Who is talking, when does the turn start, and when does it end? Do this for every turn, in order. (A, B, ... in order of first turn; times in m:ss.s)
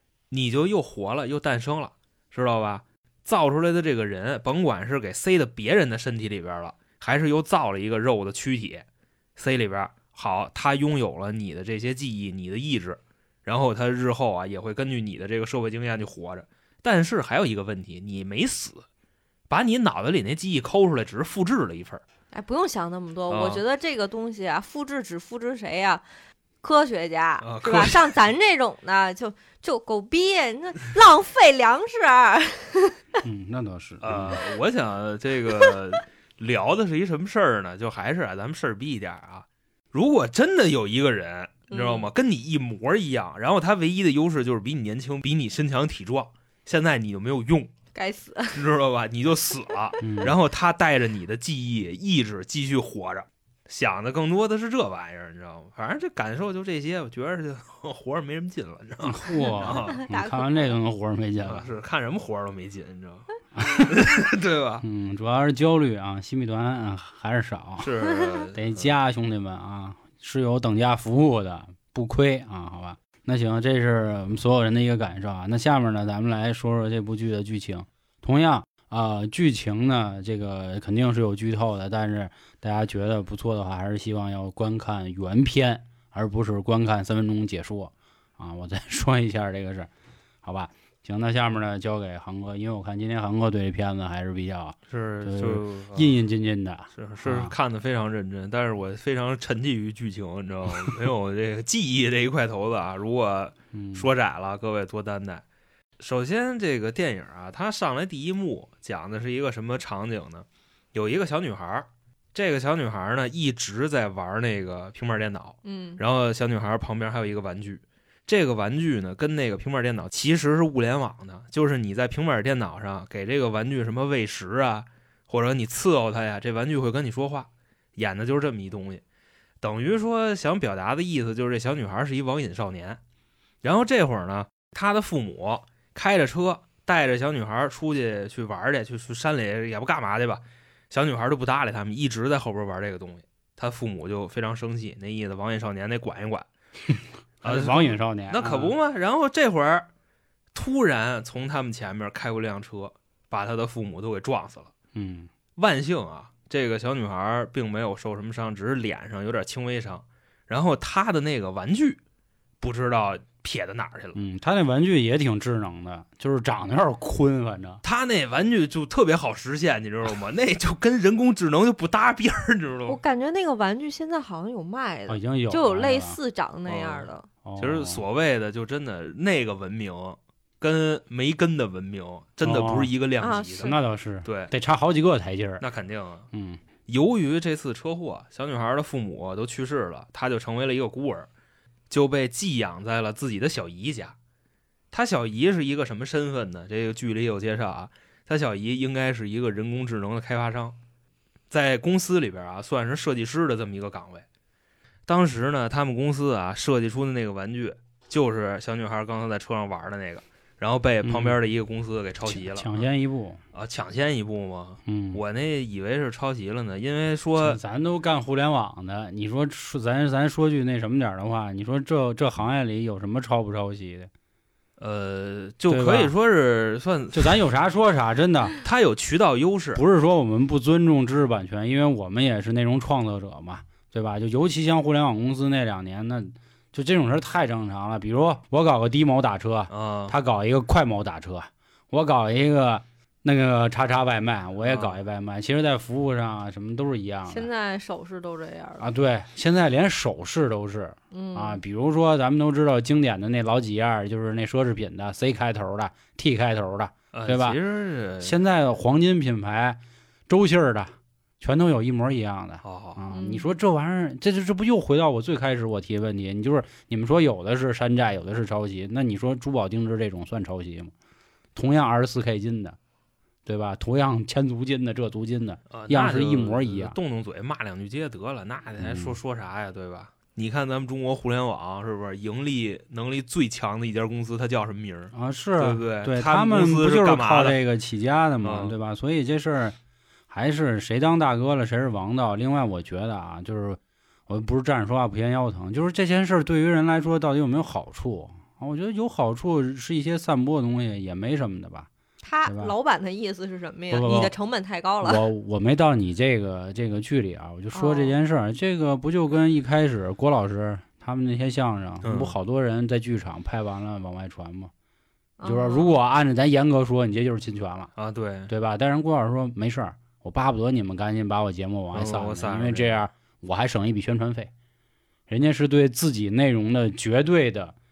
0:00.3-0:08.8 A
0:09.4-0:18.8 A
0:19.5-0:22.0 A
0:22.3-0:26.0 B
0:23.3-0:23.6 A
0:26.6-0:33.0 B
0:27.4-0:28.2 A
0:33.2-0:34.4 C
0:34.0-0:47.7 A
0:41.7-0:42.1 B
0:47.9-0:48.6 B
0:48.5-1:00.0 A
0:50.0-0:50.3 C
0:59.0-1:01.7 C
0:59.4-1:00.8 B
1:01.4-1:03.3 A
1:03.6-1:04.0 C
1:03.8-1:04.8 A
1:04.8-1:07.9 C
1:07.8-1:08.9 A
1:08.5-1:29.9 C
1:30.4-1:37.5 C
1:34.9-1:36.2 A
1:37.0-1:45.4 A
1:43.7-1:44.1 C
1:46.0-2:09.0 A
1:55.6-1:56.0 B
2:09.6-2:13.0 A
2:13.6-2:26.5 A
2:26.9-2:28.7 C
2:27.4-2:29.9 A
2:30.5-2:34.7 A
2:34.9-2:35.3 C
2:35.6-2:42.0 A
2:42.6-2:44.2 A
2:44.1-2:47.8 C
2:47.8-2:53.0 A
2:52.9-2:57.2 B
2:55.1-2:56.2 C
2:56.7-3:04.5 A
2:57.4-2:58.0 C
3:02.4-3:02.9 C
3:03.2-3:03.8 B
3:03.6-3:05.6 C
3:05.6-3:06.3 A
3:06.3-3:06.6 C
3:06.8-3:11.3 A
3:11.9-3:14.2 A
3:14.9-3:20.8 A
3:21.5-3:24.2 A
3:25.1-3:32.9 A
3:31.0-3:31.4 C
3:32.2-3:33.4 C
3:33.5-3:37.6 A
3:34.8-3:35.2 C
3:37.4-3:44.1 C
3:44.8-3:47.4 A
3:45.7-3:46.1 C
3:47.1-3:48.6 C
3:48.6-3:49.8 A
3:49.7-4:07.5 C
3:59.7-4:00.1 A
4:04.6-4:05.0 A
4:07.3-4:08.9 B
4:08.8-4:17.6 C
4:11.1-4:11.6 B
4:17.1-4:18.4 A
4:18.2-4:30.9 C
4:22.6-4:23.0 A
4:23.1-4:23.5 B
4:31.5-4:32.8 C
4:33.4-4:37.0 C
4:35.7-4:47.6 A
4:38.8-4:39.2 C
4:45.1-4:49.8 C
4:48.4-4:48.7 A
4:50.3-5:01.9 C
5:02.2-5:05.2 B
5:02.4-5:02.7 C
5:03.9-5:04.3 C
5:05.0-5:14.7 C
5:07.7-5:08.1 B
5:12.0-5:12.4 A
5:15.4-5:16.0 B
5:15.4-5:17.9 C
5:18.0-5:18.5 A
5:18.5-5:24.5 C
5:21.9-5:23.0 A
5:25.3-5:27.7 C